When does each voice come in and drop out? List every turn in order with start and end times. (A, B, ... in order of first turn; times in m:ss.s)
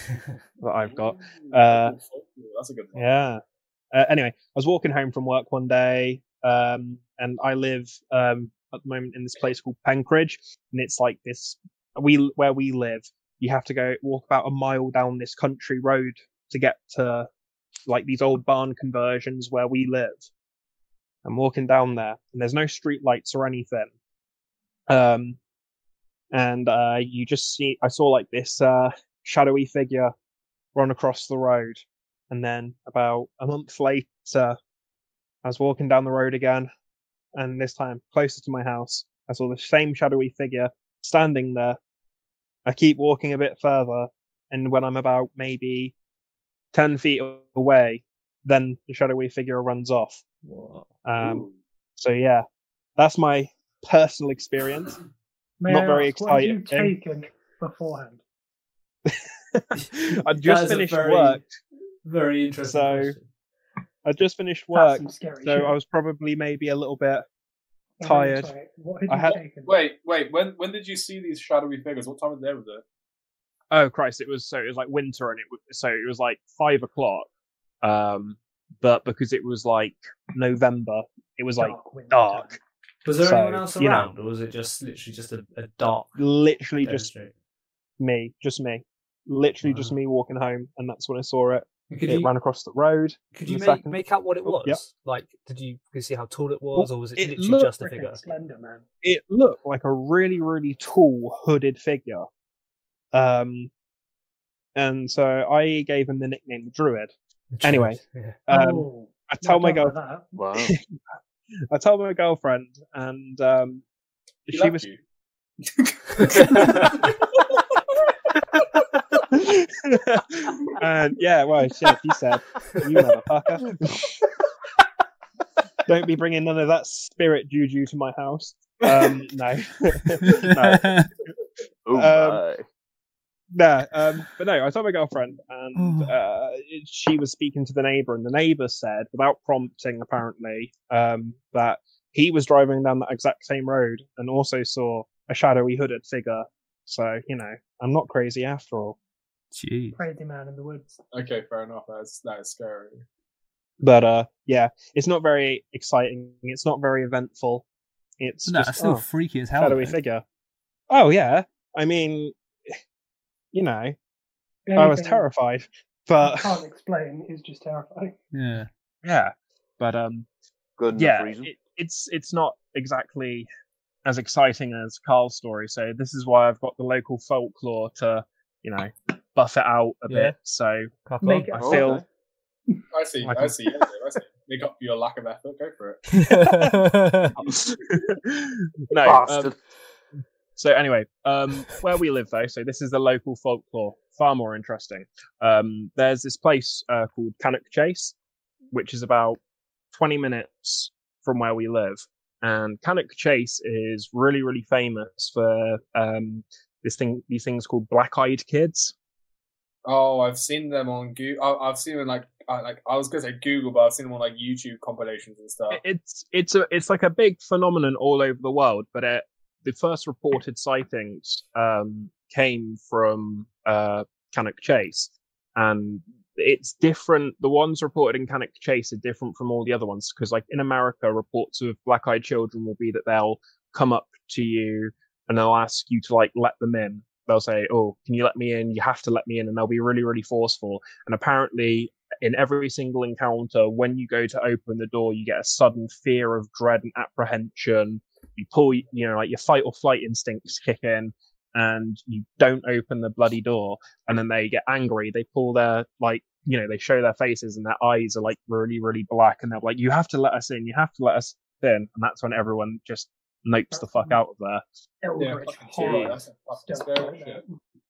0:00.6-0:02.0 A
0:00.8-0:03.1 B
0:03.0-0:17.3 A
0:17.9-0:20.3 A
0:21.2-0:23.9 A
0:24.9-0:25.4 A
0:26.3-0:30.1 A
0:30.7-0:34.6 A
0:35.4-0:36.7 A
0:37.4-0:41.8 A
0:42.6-0:45.9 A
0:46.7-0:50.2 A
0:50.4-0:50.9 C
0:51.0-0:52.4 A
0:51.2-0:51.5 B
0:53.0-0:55.0 A
0:55.6-0:58.2 D
0:55.7-0:56.9 A
0:59.1-1:01.5 A
1:00.3-1:01.4 C
1:02.0-1:03.3 C
1:02.6-1:03.1 A
1:04.0-1:07.2 A
1:04.7-1:05.7 D
1:08.0-1:09.7 D
1:08.0-1:08.5 A
1:09.1-1:09.4 A
1:09.3-1:12.8 B
1:13.7-1:17.3 A
1:17.8-1:22.6 A
1:21.6-1:22.6 D
1:23.0-1:26.2 C
1:23.2-1:23.6 A
1:23.8-1:24.1 D
1:26.2-1:27.1 A
1:26.8-1:27.3 C
1:28.0-1:34.8 A
1:29.6-1:29.9 C
1:31.9-1:32.3 C
1:33.3-1:38.3 C
1:36.7-1:37.7 A
1:37.7-1:38.8 D
1:39.0-1:42.3 A
1:43.1-1:43.7 A
1:44.8-1:50.0 A
1:47.5-1:48.4 C
1:48.5-1:50.3 D
1:50.3-1:50.8 E
1:51.7-1:53.8 A
1:54.4-1:54.9 A
1:54.5-1:55.0 B
1:55.6-1:57.7 B
1:56.4-1:56.8 C
1:59.3-2:04.1 A
2:05.9-2:11.1 A
2:10.2-2:11.1 C
2:11.9-2:12.6 E
2:11.9-2:12.4 A
2:13.5-2:29.0 A
2:15.8-2:16.1 C
2:29.5-2:30.0 C
2:30.0-2:31.0 D
2:31.1-2:33.0 B
2:33.8-2:37.6 A
2:38.2-2:39.0 A
2:38.4-2:40.0 C
2:39.6-2:40.2 A
2:40.9-2:42.8 A
2:43.5-2:44.0 A
2:44.7-2:45.2 D
2:44.8-2:46.6 A
2:46.2-2:48.2 D
2:48.3-2:48.7 C
2:49.0-2:50.3 A
2:50.8-2:51.5 E
2:51.0-2:53.5 A
2:54.0-3:00.9 A
3:00.1-3:00.3 C
3:01.0-3:01.7 C
3:01.2-3:01.9 D
3:01.6-3:02.0 A
3:01.6-3:02.0 E
3:02.9-3:06.0 B
3:03.2-3:03.6 A
3:06.1-3:07.3 C
3:07.4-3:09.5 A
3:09.0-3:09.6 E
3:10.6-3:18.1 A
3:18.7-3:19.4 A
3:19.9-3:28.9 A
3:29.9-3:35.8 B
3:35.7-4:24.6 A
4:23.7-4:24.2 D
4:25.0-4:27.6 D
4:25.2-4:27.4 B
4:25.8-4:26.2 A